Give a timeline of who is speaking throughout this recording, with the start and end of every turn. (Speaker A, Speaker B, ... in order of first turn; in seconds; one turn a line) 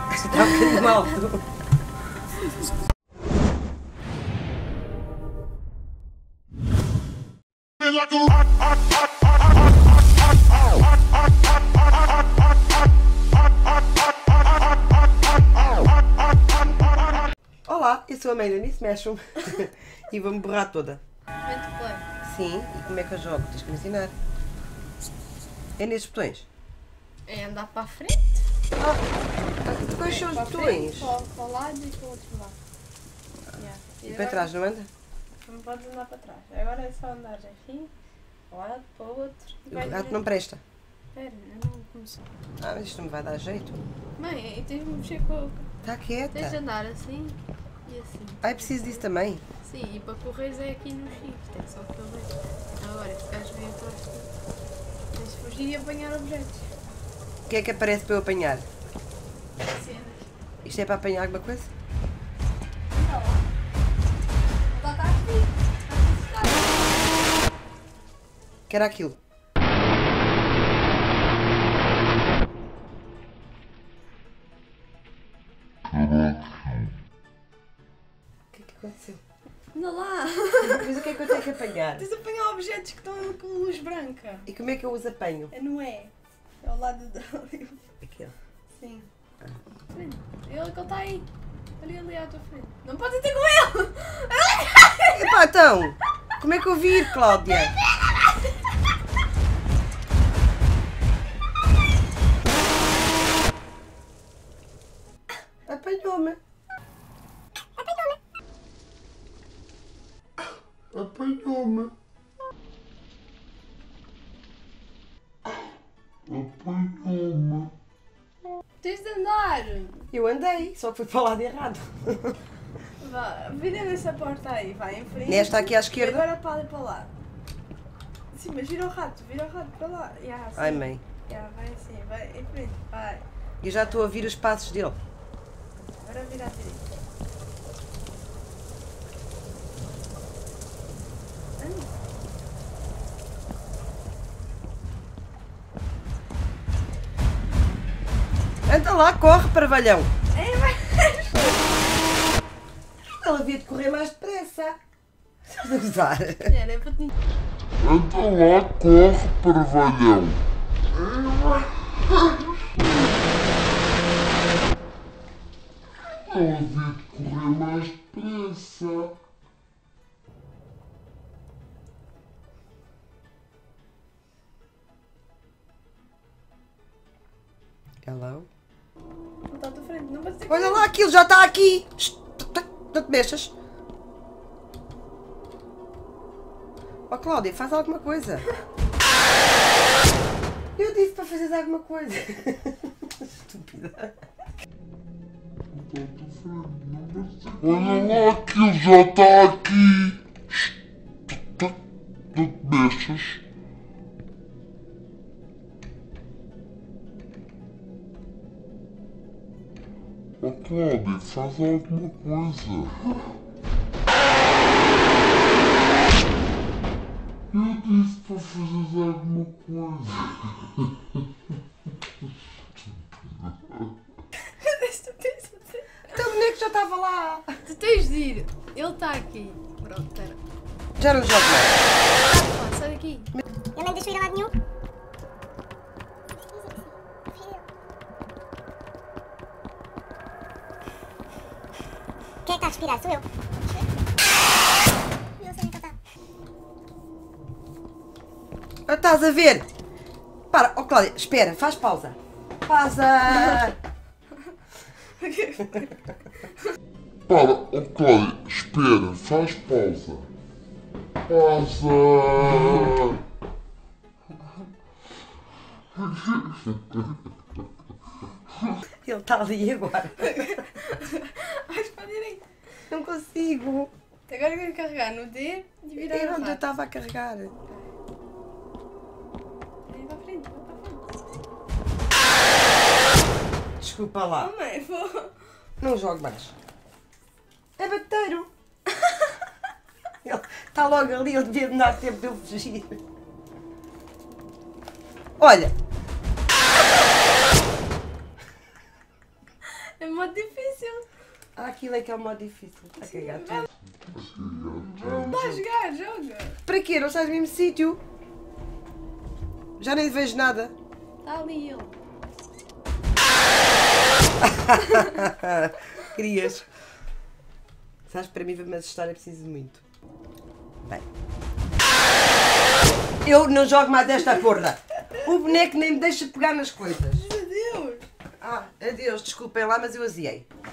Speaker A: 0.1-1.4
Speaker B: 0.3-1.1
Speaker A: 17.6-21.0
Speaker B: 21.4-22.0
Speaker A: 22.2-24.1
Speaker A: 25.8-26.5
Speaker B: 27.3-28.4
Speaker A: 28.8-29.0
Speaker A: 29.6-31.1
Speaker B: 30.0-32.6
Speaker B: 33.5-34.5
Speaker A: 34.0-34.9
Speaker B: 35.5-37.9
Speaker B: 38.5-40.2
Speaker A: 39.7-40.6
Speaker B: 41.1-42.2
Speaker A: 42.6-43.8
Speaker B: 44.2-45.7
Speaker A: 45.8-46.6
Speaker B: 46.3-49.0
Speaker A: 48.4-49.4
Speaker B: 49.6-54.3
Speaker B: 55.1-56.7
Speaker A: 57.5-58.6
Speaker B: 59.6-60.3
Speaker A: 60.6-61.7
Speaker B: 62.9-63.4
Speaker B: 64.7-66.9
Speaker A: 68.7-69.2
Speaker C: 75.9-76.4
Speaker A: 78.5-79.2
Speaker B: 79.7-84.5
Speaker A: 80.6-82.0
Speaker A: 84.5-85.5
Speaker B: 85.5-87.8
Speaker A: 88.0-88.3
Speaker B: 88.8-89.1
Speaker B: 89.9-91.3
Speaker B: 91.8-95.4
Speaker A: 95.1-97.7
Speaker B: 98.0-98.3
Speaker A: 105.7-106.4
Speaker A: 110.9-111.9
Speaker C: 116.3-117.7
Speaker B: 118.8-120.0
Speaker A: 120.1-122.4
Speaker B: 123.0-127.1
Speaker A: 125.2-126.2
Speaker B: 128.3-133.2
Speaker A: 130.6-131.0
Speaker A: 133.6-135.0
Speaker B: 135.8-136.9
Speaker B: 141.6-141.9
Speaker A: 148.7-150.1
Speaker B: 150.3-151.6
Speaker A: 153.1-154.8
Speaker A: 155.4-156.5
Speaker B: 156.4-157.1
Speaker C: 157.8-160.4
Speaker C: 160.9-162.9
Speaker C: 166.1-169.2
Speaker A: 178.0-178.5
Speaker B: 179.5-180.9
Speaker A: 180.5-183.5
Speaker A: 187.1-188.4
Speaker A: 190.8-194.1
Speaker C: 195.7-200.7
Speaker B: 197.8-198.1
Speaker C: 201.3-201.8
Speaker C: 202.3-203.4
Speaker C: 210.4-213.1
Speaker C: 217.5-220.9
Speaker B: 224.3-226.1
Speaker A: 226.1-227.6
Speaker B: 227.6-230.4
Speaker A: 231.0-231.8
Speaker B: 232.0-233.3
Speaker D: 233.7-234.5
Speaker D: 236.5-237.6
Speaker D: 242.4-243.8
Speaker D: 245.4-245.9
Speaker A: 248.9-249.7
Speaker A: 250.5-253.8
Speaker B: 255.2-255.9
Speaker C: 257.3-260.3
Speaker C: 261.3-263.2
Speaker A: 269.0-270.6
Speaker B: 270.2-272.4
Speaker A: 272.9-273.9
Speaker B: 274.3-276.7
Speaker A: 276.0-277.5
Speaker B: 279.9-281.2
Speaker A: 283.8-284.5
Speaker B: 284.4-285.3
Speaker A: 285.8-286.5
Speaker A: 287.8-288.5
Speaker A: 290.2-293.0
Speaker A: 295.4-295.7
Speaker B: 300.0-301.1
Speaker A: 301.6-303.6
Speaker B: 303.0-303.7
Speaker C: 304.1-305.6
Speaker B: 305.0-306.6
Speaker A: 306.6-308.0
Speaker A: 309.8-310.7
Speaker B: 311.2-311.9
Speaker A: 314.4-316.7
Speaker A: 318.1-319.8
Speaker A: 323.2-327.2
Speaker B: 327.1-328.1
Speaker A: 328.4-330.4